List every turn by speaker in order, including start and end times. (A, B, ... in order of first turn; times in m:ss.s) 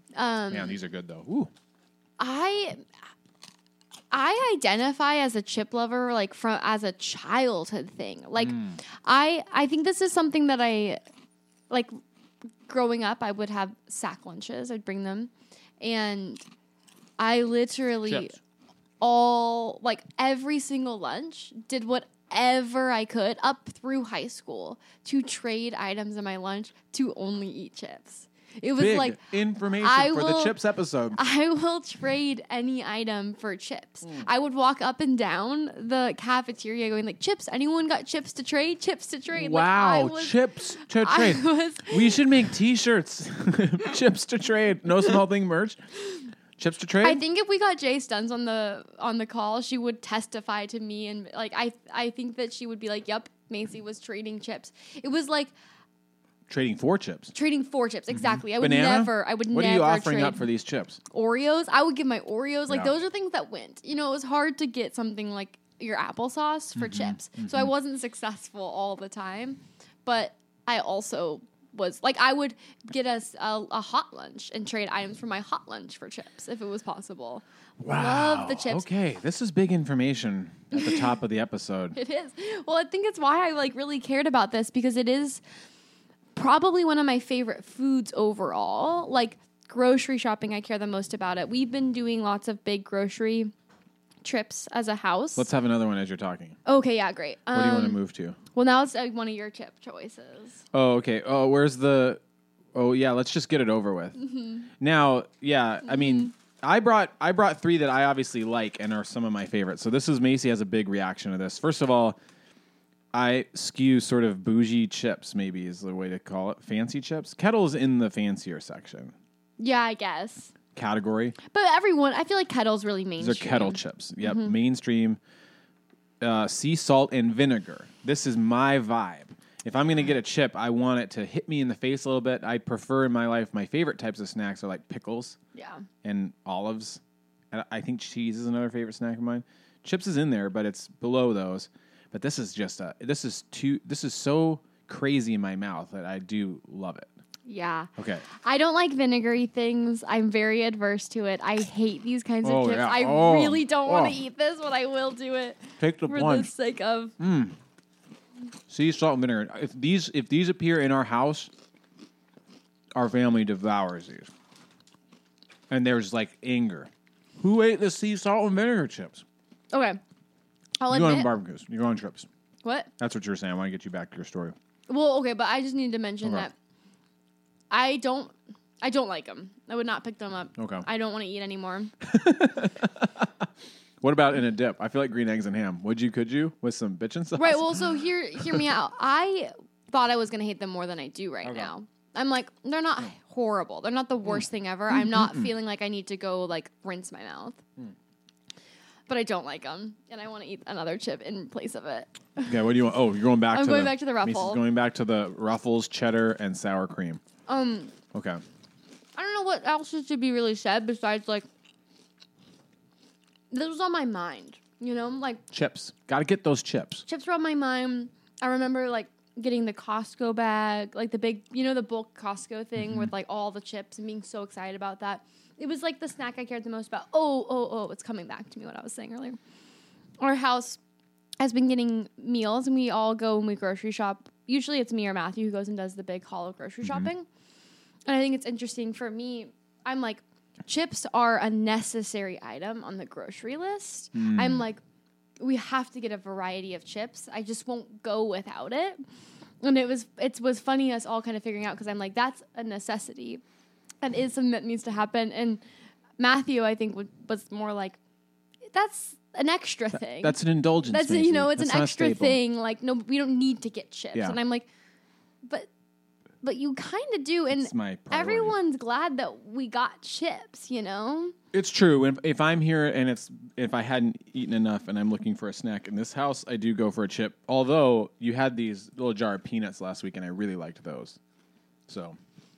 0:00.1-0:00.8 A
0:00.5-0:01.5 B
0:02.2-0:02.8 A
0:04.1-0:11.0 A
0:08.4-0:08.8 B
0:11.7-0:12.0 A
0:12.6-0:16.4 A
0:17.2-0:18.4 A
0:18.0-0:18.3 B
0:19.0-0:29.2 A
0:28.8-0:31.2 B
0:29.8-0:30.6 A
0:31.1-0:40.4 A
0:39.3-0:45.8 B
0:40.9-0:42.2 A
0:46.6-0:47.2 B
0:47.0-0:55.5 A
0:56.5-0:57.3 B
0:57.3-1:00.4 A
0:58.1-1:01.0 B
1:01.1-1:18.9 A
1:06.8-1:07.7 B
1:17.8-1:22.0 B
1:20.7-1:21.1 A
1:21.9-1:25.4 A
1:26.3-1:33.5 A
1:34.2-1:35.5 A
1:35.4-1:36.6 B
1:36.6-1:38.0 A
1:37.5-1:38.4 B
1:38.5-1:40.6 A
1:40.7-1:42.2 B
1:42.7-1:44.2 B
1:44.2-1:44.7 A
1:44.8-1:52.2 B
1:53.1-1:59.1 B
1:59.6-2:00.5 A
2:00.7-2:01.4 B
2:01.5-2:04.5 A
2:03.2-2:05.2 B
2:06.2-2:15.4 B
2:15.5-2:15.8 A
2:16.0-2:27.1 B
2:27.4-2:37.1 A
2:28.0-2:28.2 B
2:32.4-2:34.2 B
2:35.8-2:36.5 B
2:37.2-2:37.6 B
2:38.7-2:41.5 B
2:42.9-2:44.3 B
2:45.7-2:49.2 B
2:49.7-2:50.0 A
2:50.8-2:51.3 A
2:50.9-2:52.3 B
2:52.6-2:52.9 A
2:53.0-2:54.6 B
2:54.9-2:56.5 A
2:57.7-3:01.9 A
3:00.6-3:00.8 B
3:02.0-3:03.3 B
3:04.0-3:08.6 B
3:07.4-3:17.6 A
3:11.4-3:11.7 B
3:14.9-3:15.5 B
3:19.1-3:22.6 A
3:22.4-3:27.2 B
3:23.5-3:24.6 A
3:27.5-3:27.9 A
3:28.1-3:28.4 B
3:29.2-3:31.4 A
3:33.5-3:35.4 A
3:35.5-3:37.0 B
3:37.1-3:49.4 A
3:42.8-3:43.1 B
3:50.2-3:50.8 A
3:51.4-3:57.2 A
3:56.8-3:57.1 B
3:58.1-4:04.8 A
4:04.1-4:04.6 B
4:05.4-4:09.0 A
4:09.6-4:13.4 A
4:14.0-4:15.6 A
4:16.2-4:18.0 A
4:18.7-4:24.7 A
4:19.9-4:22.4 B
4:26.4-4:31.3 A
4:27.5-4:28.5 B
4:31.5-4:41.2 B
4:41.9-4:42.2 B